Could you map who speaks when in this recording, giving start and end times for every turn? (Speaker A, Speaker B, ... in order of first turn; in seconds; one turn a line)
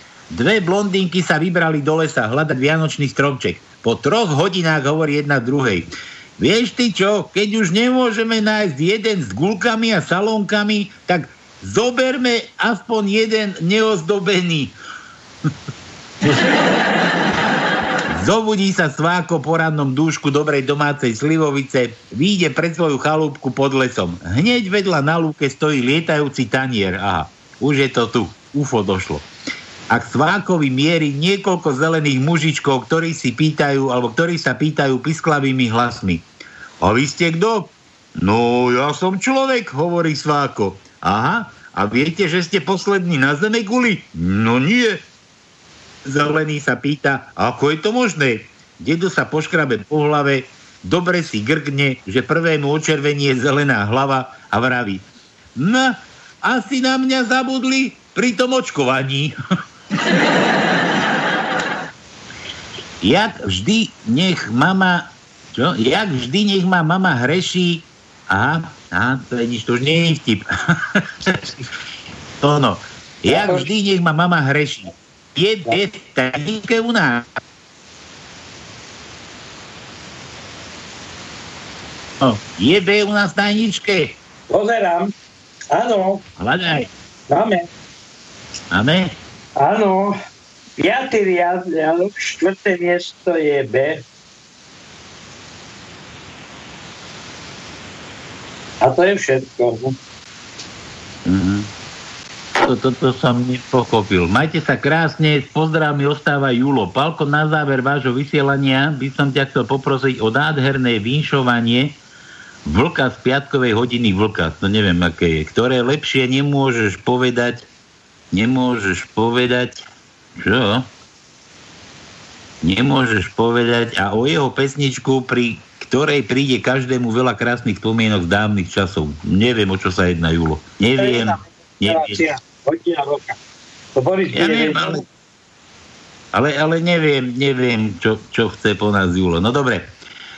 Speaker A: 0.3-14.7
Speaker A: 18.1-29.2
Speaker A: 29.9-36.3
Speaker A: 36.8-45.0
Speaker A: 46.0-55.0
Speaker A: 55.6-59.4
Speaker A: 63.0-71.5
Speaker A: 72.4-77.3
Speaker B: 73.3-73.7
Speaker A: 82.2-84.2
Speaker B: 84.5-85.1
Speaker B: 85.7-86.2
Speaker A: 86.4-86.9
Speaker B: 87.3-87.7
Speaker A: 88.7-89.1
Speaker B: 89.6-90.2
Speaker B: 90.8-94.0
Speaker B: 98.8-100.0
Speaker A: 101.2-101.7
Speaker A: 102.6-112.0
Speaker A: 112.7-117.7
Speaker A: 118.3-119.8
Speaker A: 120.4-120.9
Speaker A: 122.6-132.2
Speaker B: 131.0-133.4
Speaker B: 133.9-135.0
Speaker A: 134.3-135.0
Speaker A: 136.3-139.9